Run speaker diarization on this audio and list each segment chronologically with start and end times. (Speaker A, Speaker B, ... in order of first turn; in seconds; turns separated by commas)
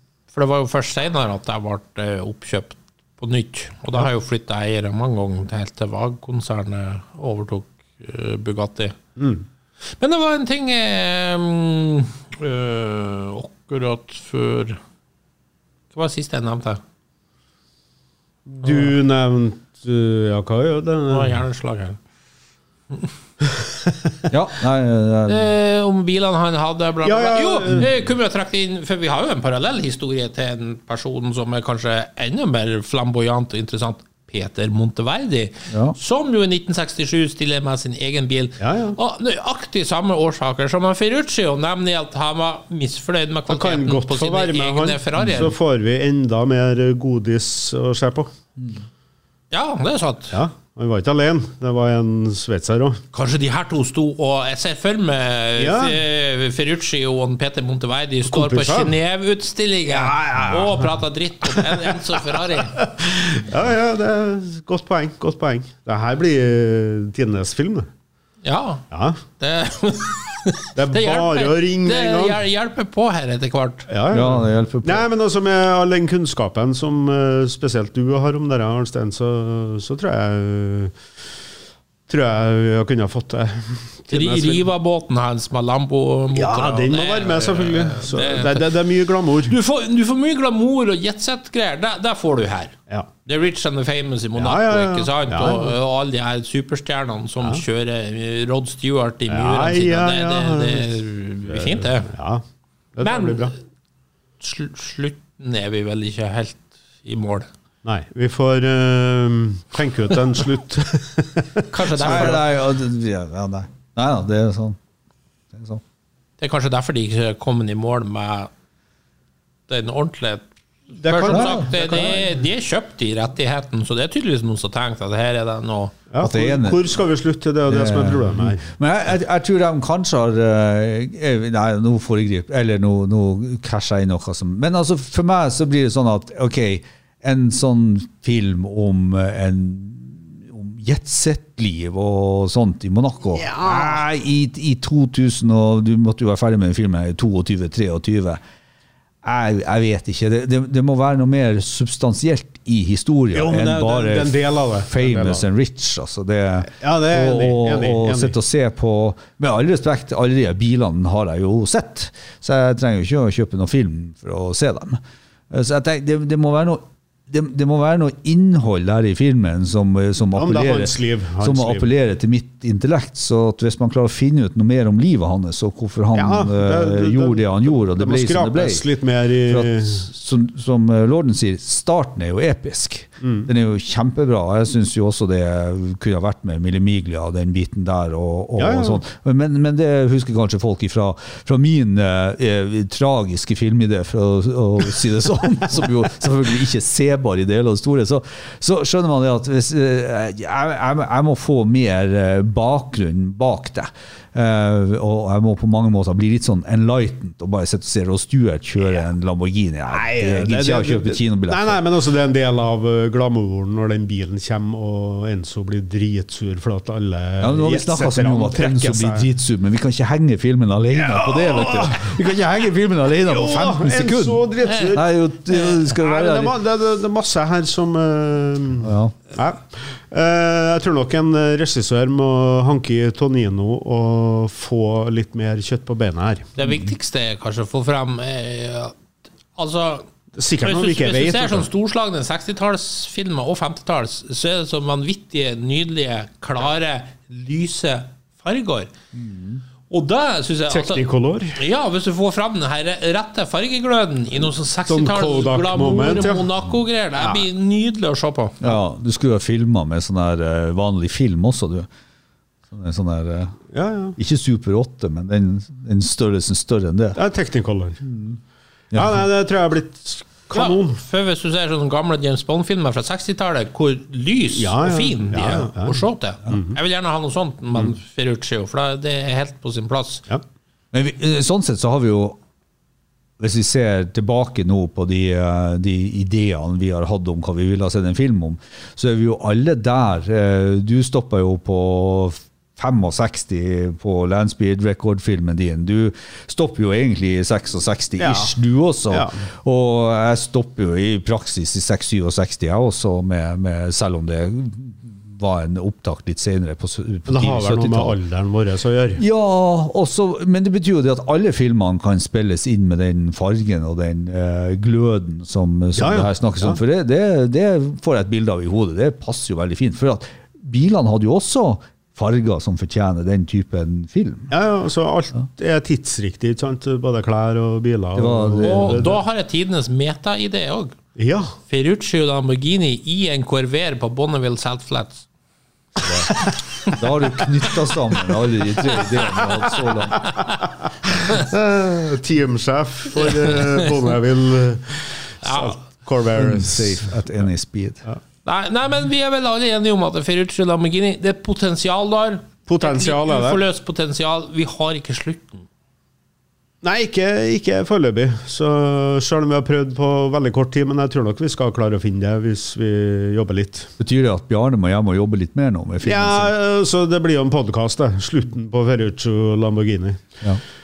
Speaker A: 0.3-9.0, Speaker B: 9.2-9.4, Speaker A: 10.0-14.8, Speaker A: 15.9-16.8, Speaker B: 18.5-21.4, Speaker A: 21.1-22.0, Speaker C: 24.3-25.5, Speaker A: 25.2-45.5, Speaker B: 27.0-27.9, Speaker C: 35.7-36.0, Speaker B: 38.6-39.0, Speaker B: 43.5-48.3, Speaker C: 45.2-45.5, Speaker A: 49.5-50.4, Speaker B: 50.3-53.0, Speaker A: 53.1-62.8, Speaker B: 55.6-56.0, Speaker B: 58.2-58.9, Speaker B: 59.9-61.0, Speaker B: 61.5-61.9, Speaker B: 62.7-67.9, Speaker A: 68.4-73.9, Speaker B: 68.9-69.2, Speaker B: 70.7-72.4, Speaker B: 73.9-81.0, Speaker C: 74.1-75.0, Speaker B: 82.1-84.7, Speaker A: 84.1-88.8, Speaker B: 86.3-89.5, Speaker A: 89.5-102.1, Speaker B: 94.3-95.7, Speaker B: 99.3-100.9, Speaker B: 101.5-102.4, Speaker B: 102.9-103.5, Speaker A: 103.0-103.5, Speaker A: 104.4-107.5, Speaker B: 107.8-112.4, Speaker A: 111.7-112.4, Speaker C: 112.0-114.8, Speaker C: 115.5-115.8, Speaker A: 116.4-118.5, Speaker A: 119.7-120.5, Speaker B: 121.0-122.3, Speaker A: 121.0-126.0, Speaker C: 121.2-122.0, Speaker B: 126.1-128.7, Speaker C: 126.2-126.8, Speaker C: 127.7-148.4, Speaker B: 143.3-144.0, Speaker C: 149.2-165.0, Speaker B: 153.3-155.4, Speaker B: 156.7-158.3, Speaker C: 165.5-178.8, Speaker B: 170.3-171.9, Speaker B: 176.1-180.1, Speaker C: 179.5-211.8, Speaker B: 183.2-183.5, Speaker B: 188.6-189.0, Speaker B: 209.9-219.3, Speaker C: 217.4-226.5, Speaker B: 220.9-222.2, Speaker B: 223.2-236.5, Speaker A: 224.6-224.9, Speaker C: 228.8-229.2, Speaker A: 236.6-239.0, Speaker C: 236.6-236.9, Speaker A: 239.5-240.1, Speaker B: 240.3-241.7, Speaker A: 240.6-248.9, Speaker C: 249.1-249.6, Speaker A: 249.9-258.7, Speaker B: 250.7-251.6, Speaker B: 254.9-256.5, Speaker B: 257.2-257.5, Speaker C: 258.6-261.9, Speaker C: 262.7-263.6, Speaker B: 263.7-264.2, Speaker C: 264.1-267.2, Speaker B: 267.1-268.0, Speaker C: 268.0-268.4, Speaker C: 268.9-269.2, Speaker B: 268.9-271.0, Speaker A: 270.5-280.2, Speaker B: 274.5-276.0, Speaker B: 276.5-276.8, Speaker C: 280.9-282.4, Speaker C: 283.4-308.1, Speaker B: 298.2-298.5, Speaker B: 299.1-299.4, Speaker B: 307.3-309.2, Speaker C: 309.2-324.5, Speaker B: 315.9-316.8, Speaker B: 324.5-329.2, Speaker C: 328.1-329.1, Speaker A: 328.6-331.0, Speaker B: 331.1-331.5, Speaker A: 331.7-335.2, Speaker C: 336.0-336.3, Speaker C: 336.8-340.4, Speaker A: 338.9-340.6, Speaker B: 341.3-347.2, Speaker A: 343.1-344.0, Speaker A: 345.4-345.8, Speaker C: 346.4-348.0, Speaker A: 348.4-355.6, Speaker B: 352.7-353.6, Speaker B: 356.8-363.9, Speaker C: 364.0-366.5, Speaker B: 366.0-370.3